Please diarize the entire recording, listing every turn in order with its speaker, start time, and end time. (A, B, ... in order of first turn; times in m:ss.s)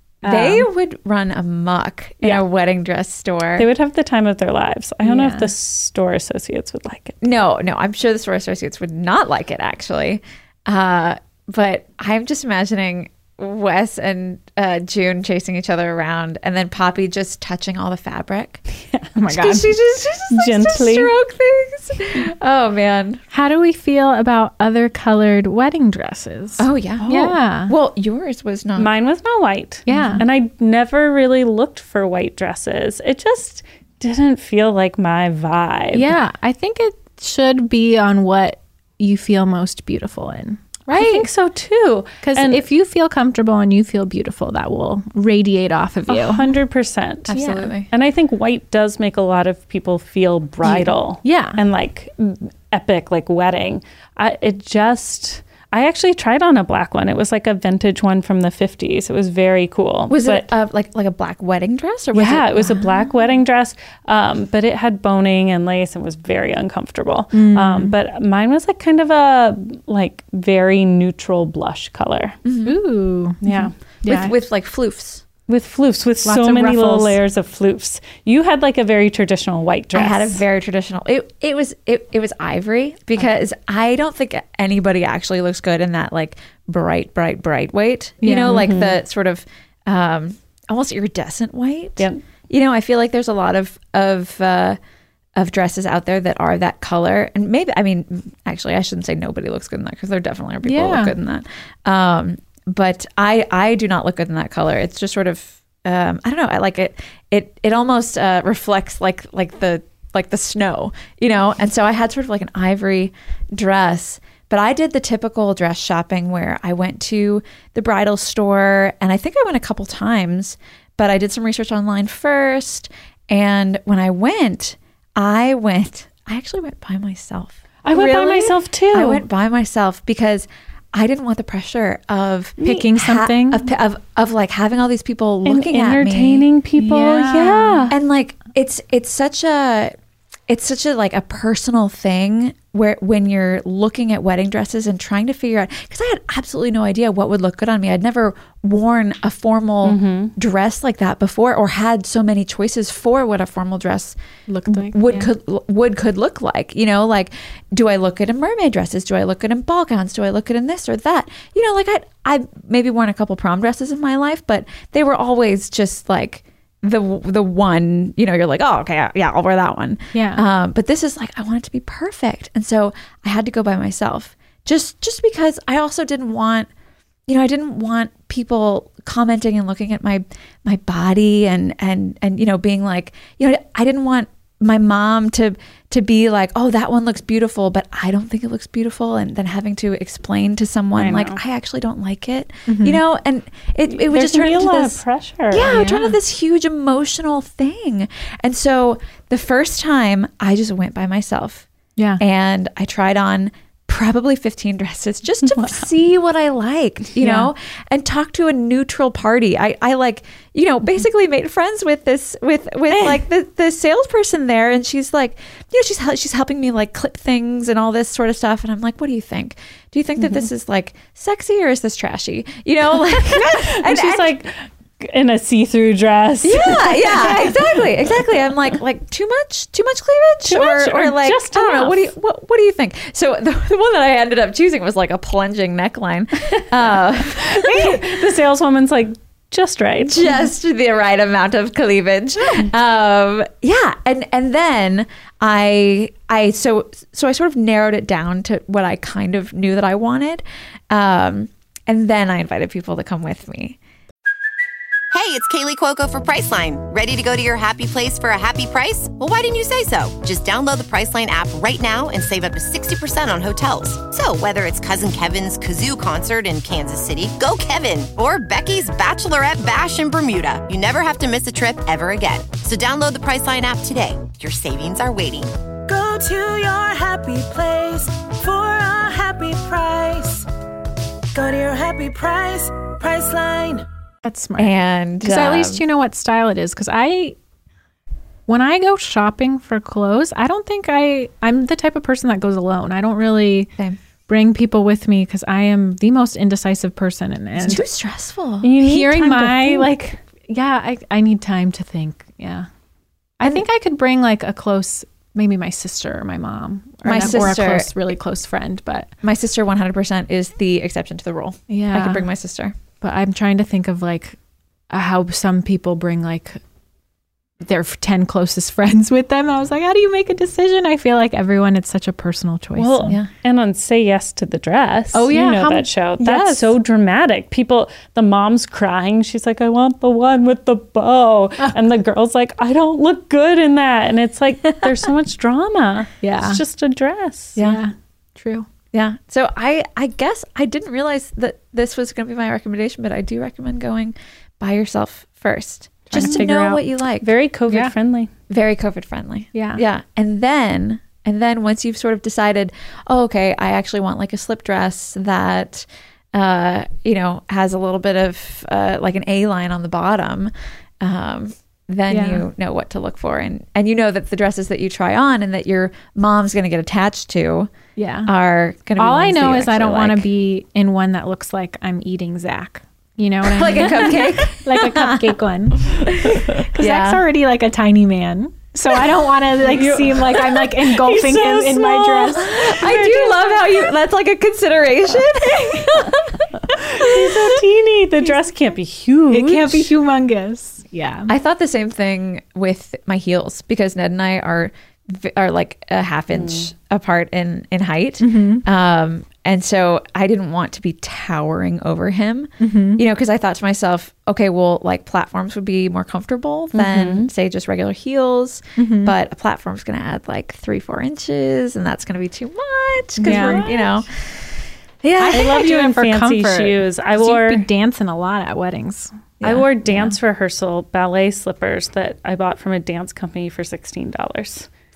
0:00.2-0:00.7 A
0:00.2-0:03.7 B
0:03.6-0:07.2 C
0:05.0-0:05.5 A
0:07.2-0:18.6 B
0:19.2-0:19.7 A
0:19.3-0:23.2 B
0:20.3-0:21.1 C
0:23.3-0:27.7 A
0:26.6-0:28.9 B
0:28.8-0:36.2 C
0:29.9-0:30.2 A
0:35.9-0:41.3 A
0:40.9-0:42.6 C
0:42.2-0:46.5 A
0:46.1-1:00.5 C
0:47.3-0:47.9 B
0:47.4-0:47.6 A
0:50.7-0:51.6 A
1:00.1-1:03.0 B
1:02.1-1:12.4 C
1:07.3-1:08.0 A
1:12.4-1:12.8 B
1:12.6-1:14.3 A
1:13.4-1:13.7 C
1:14.0-1:15.2 B
1:15.5-1:20.4 C
1:16.2-1:17.2 A
1:19.9-1:34.8 B
1:28.2-1:28.7 A
1:28.5-1:29.0 C
1:35.4-2:16.5 B
1:40.6-1:41.1 A
2:07.8-2:09.2 C
2:12.6-2:13.7 A
2:15.4-2:17.9 C
2:16.8-2:17.9 A
2:17.9-2:20.0 B
2:20.5-2:34.2 B
2:29.8-2:30.3 C
2:34.5-2:35.3 A
2:34.7-2:56.7 B
2:50.1-2:50.4 A
2:57.3-3:21.7 B
3:11.0-3:11.4 C
3:12.7-3:13.0 A
3:13.9-3:15.8 C
3:15.6-3:16.2 A
3:22.0-3:22.2 A
3:22.2-3:44.3 B
3:27.2-3:27.5 A
3:43.2-3:47.7 C
3:46.4-3:58.1 B
3:50.4-3:52.1 C
3:57.4-4:00.3 C
4:00.1-4:13.8 B
4:15.1-4:35.8 D
4:35.9-4:40.5 E
4:41.3-4:43.9 E
4:44.2-4:47.4 A
4:44.6-4:45.8 B
4:48.5-4:53.7 A
4:54.3-4:57.8 A
4:57.6-4:58.7 B
4:58.6-4:59.9 C
4:58.8-5:02.7 A
5:03.4-5:09.1 A
5:07.0-5:07.9 B
5:09.2-5:12.8 B
5:11.7-5:12.3 A
5:13.0-5:14.4 A
5:14.9-5:16.6 A
5:17.6-5:23.2 A
5:22.8-5:37.6 C
5:25.1-5:26.8 A
5:36.2-5:36.6 A
5:37.6-5:37.8 B
5:37.6-5:38.7 A
5:38.9-5:47.3 B
5:46.1-5:46.8 A
5:46.1-5:46.5 C
5:47.2-5:48.3 C
5:48.5-6:07.7 B
5:49.5-5:49.8 A
6:02.1-6:02.4 A
6:08.0-6:08.3 A
6:08.3-6:10.3 B
6:09.0-6:22.8 A
6:13.4-6:15.4 B
6:15.9-6:17.2 B
6:19.6-6:23.7 C
6:22.4-6:27.6 B
6:26.7-6:29.9 C
6:29.3-6:31.3 A
6:31.3-6:54.5 B
6:36.3-6:36.7 C
6:38.2-6:38.6 A
6:42.6-6:43.0 A
6:46.7-6:47.3 C
6:48.8-6:49.2 A
6:53.2-6:53.7 A
6:53.2-6:53.9 C
6:55.0-6:55.7 B
6:55.2-6:59.1 A
6:55.3-6:57.7 C
6:59.4-6:59.7 B
6:59.4-7:04.7 C